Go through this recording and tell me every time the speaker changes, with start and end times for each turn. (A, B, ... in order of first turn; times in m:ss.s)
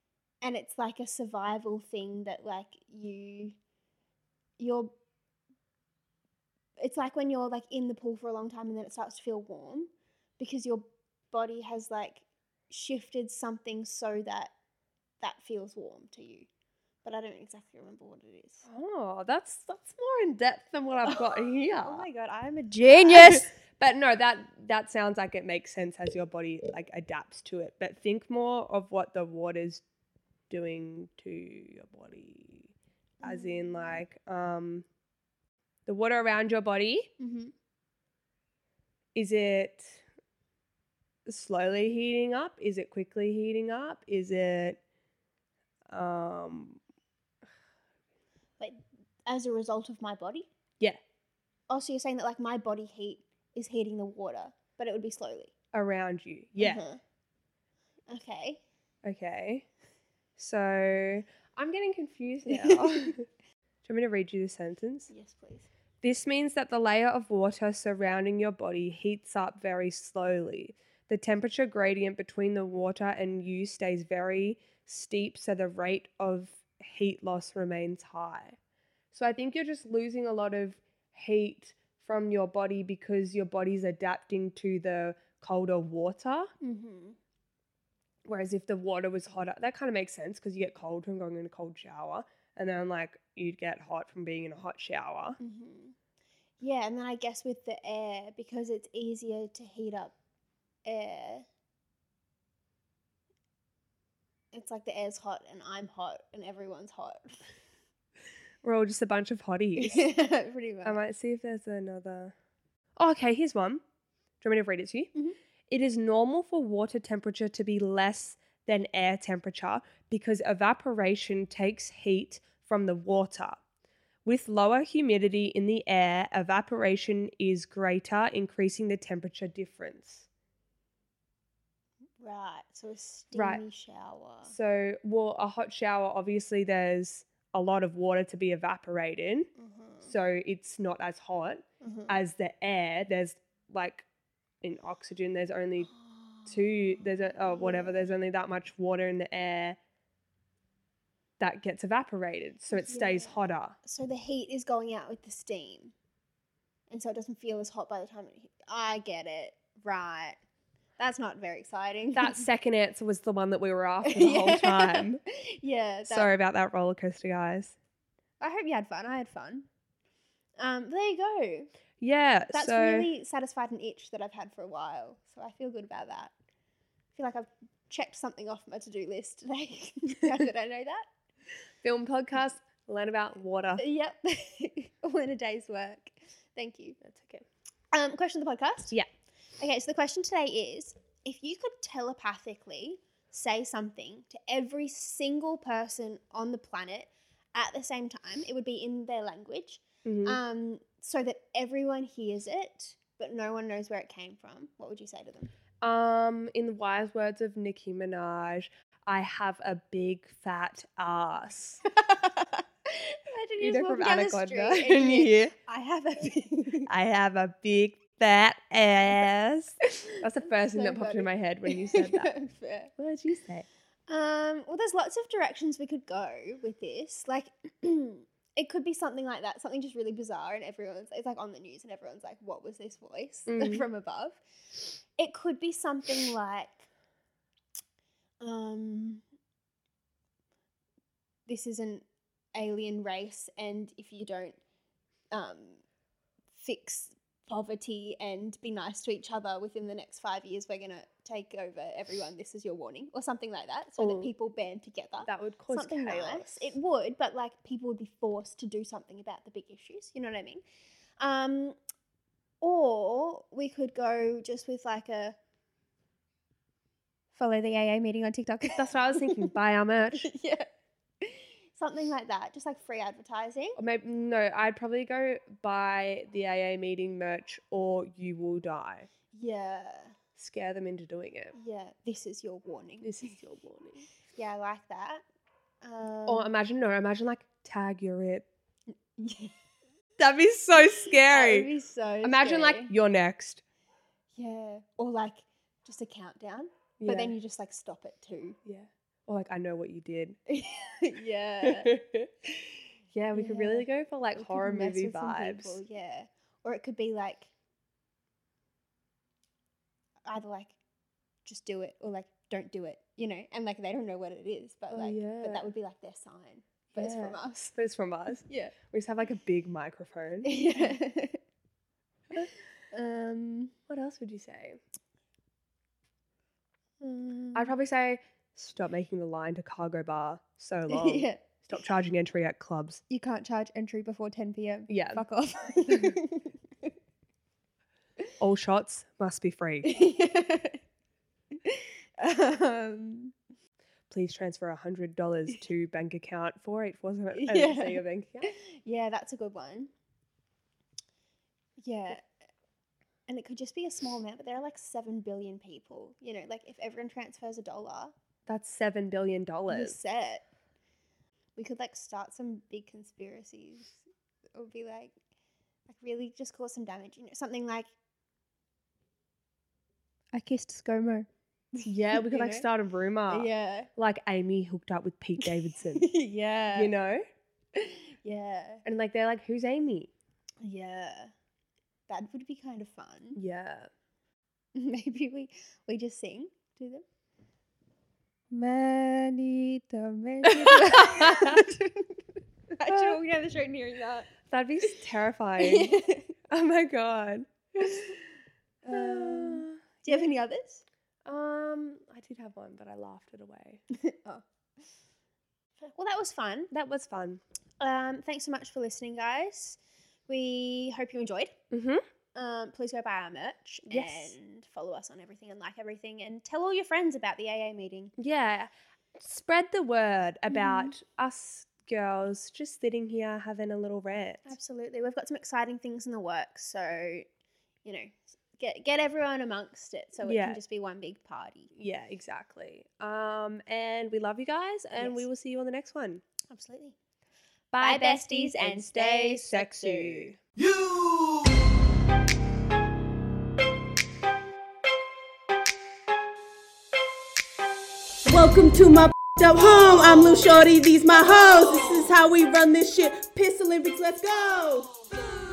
0:00.4-0:03.6 A
0:04.6-0:04.9 A
0:06.8-0:14.5 A
0:15.2-0:16.5 A
0:17.0-0:18.7 A
0:18.6-0:22.0 B
0:21.0-0:23.5 A
0:22.9-0:29.8 B
0:30.5-0:34.8 B
0:33.2-0:34.0 A
0:35.8-0:37.1 B
0:37.2-0:37.5 A
0:39.1-0:40.0 B
0:41.2-0:44.8 B
0:45.9-0:46.8 B
0:48.6-0:50.5 A
0:51.7-0:55.5 A
0:55.7-0:56.8 B
0:56.6-0:57.0 A
0:58.1-0:58.6 A
0:59.0-0:59.7 B
1:00.4-1:03.2 B
1:02.5-1:03.2 A
1:03.8-1:05.1 B
1:05.1-1:05.7 A
1:06.0-1:18.6 B
1:19.1-1:26.5 B
1:26.6-1:27.2 A
1:28.2-1:35.4 B
1:35.4-1:36.0 A
1:36.6-1:40.1 A
1:40.8-1:41.4 A
1:44.5-1:47.4 A
1:48.6-1:50.1 B
1:49.8-1:51.0 A
1:50.8-1:52.3 B
1:53.0-1:53.8 B
1:54.4-1:55.1 B
1:55.7-2:03.6 B
2:04.2-2:10.2 B
2:12.2-2:14.5 A
2:13.3-2:13.6 B
2:14.5-2:19.5 B
2:19.6-2:20.1 A
2:20.0-2:24.0 B
2:21.8-2:22.2 A
2:24.6-2:25.9 B
2:26.0-2:26.5 A
2:26.4-2:29.8 B
2:27.3-2:28.0 A
2:31.4-2:33.8 B
2:32.8-2:35.9 A
2:36.9-2:40.4 A
2:41.0-2:42.5 A
2:42.2-2:45.2 B
2:44.0-2:46.3 A
2:46.1-2:47.8 B
2:48.4-2:49.7 A
2:50.6-2:51.7 A
2:52.0-2:53.1 B
2:52.5-2:56.3 A
2:57.1-3:01.0 A
3:01.8-3:03.8 B
3:03.8-3:07.0 A
3:07.0-3:07.4 B
3:07.9-3:09.0 A
3:09.6-3:25.5 A
3:20.0-3:20.4 B
3:25.8-3:31.8 B
3:31.9-3:36.9 A
3:33.6-3:35.5 B
3:36.9-3:42.3 B
3:39.9-3:42.9 A
3:43.0-3:43.7 B
3:44.1-3:54.4 A
3:53.5-3:53.8 B
3:55.2-3:56.8 A
3:58.4-3:59.2 A
4:01.5-4:04.6 A
4:05.3-4:05.8 A
4:06.5-4:20.6 A
4:14.0-4:14.3 B
4:15.2-4:16.7 B
4:21.2-4:21.8 A
4:22.6-4:25.4 A
4:27.3-4:29.5 A
4:28.7-4:30.3 B
4:30.2-4:30.7 A
4:31.2-4:33.8 A
4:33.8-4:39.1 B
4:39.3-4:40.1 A
4:40.4-4:41.5 B
4:41.6-4:43.3 A
4:43.0-4:44.0 B
4:44.3-4:45.2 A
4:45.8-4:46.5 A
4:46.3-4:48.4 B
4:49.2-4:49.5 A
4:50.2-4:51.7 B
4:51.2-4:52.9 A
4:52.2-4:53.6 B
4:54.4-4:58.6 A
4:57.0-4:57.3 B
4:58.6-5:00.4 B
5:00.5-5:02.0 A
5:01.6-5:02.6 B
5:03.1-5:05.8 B
5:03.3-5:07.5 A
5:10.2-5:10.8 A
5:11.4-5:17.7 A
5:14.9-5:15.7 B
5:17.0-5:21.0 B
5:18.4-5:18.7 A
5:20.4-5:21.4 A
5:22.3-5:23.7 A
5:23.9-5:24.8 B
5:27.0-5:27.7 A
5:27.5-5:33.0 B
5:30.9-5:31.4 A
5:33.1-5:36.5 A
5:34.9-5:35.2 B
5:38.4-5:40.0 B
5:39.8-5:40.8 A
5:41.6-5:43.3 A
5:44.1-5:48.5 B
5:47.3-5:49.9 A
5:51.8-5:52.2 A
5:53.3-5:58.1 A
5:58.5-6:00.0 B
5:59.7-6:00.4 A
6:01.6-6:04.0 A
6:04.5-6:05.2 A
6:05.9-6:07.9 A
6:10.3-6:12.6 A
6:11.8-6:16.1 B
6:13.3-6:13.9 A
6:15.4-6:16.9 A
6:16.7-6:17.2 B
6:17.7-6:18.8 A
6:18.8-6:20.1 B
6:20.6-6:21.3 A
6:22.1-6:23.4 A
6:23.4-6:23.9 B
6:24.7-6:27.0 A
6:28.5-6:32.2 A
6:30.4-6:31.7 B
6:32.7-6:34.3 A
6:32.8-6:33.2 B
6:34.5-6:35.9 B
6:35.6-6:36.4 A
6:36.5-6:38.0 B
6:37.8-6:38.2 A
6:38.8-6:40.2 B
6:38.8-6:40.8 A
6:41.2-6:43.8 B
6:43.9-6:44.4 A
6:45.8-6:46.7 A
6:46.7-6:47.4 B
6:47.8-6:49.8 A
6:50.3-6:51.5 A
6:51.7-6:52.0 B
6:52.3-6:58.1 A
6:53.9-6:54.3 B
6:58.2-7:04.5 B
7:00.5-7:00.9 A
7:04.4-7:07.2 A
7:07.8-7:11.7 A
7:10.2-7:10.6 B
7:11.7-7:16.2 B
7:15.0-7:15.2 A
7:16.5-7:17.0 A
7:17.7-7:20.4 B
7:17.8-7:20.3 A
7:28.2-7:34.9 C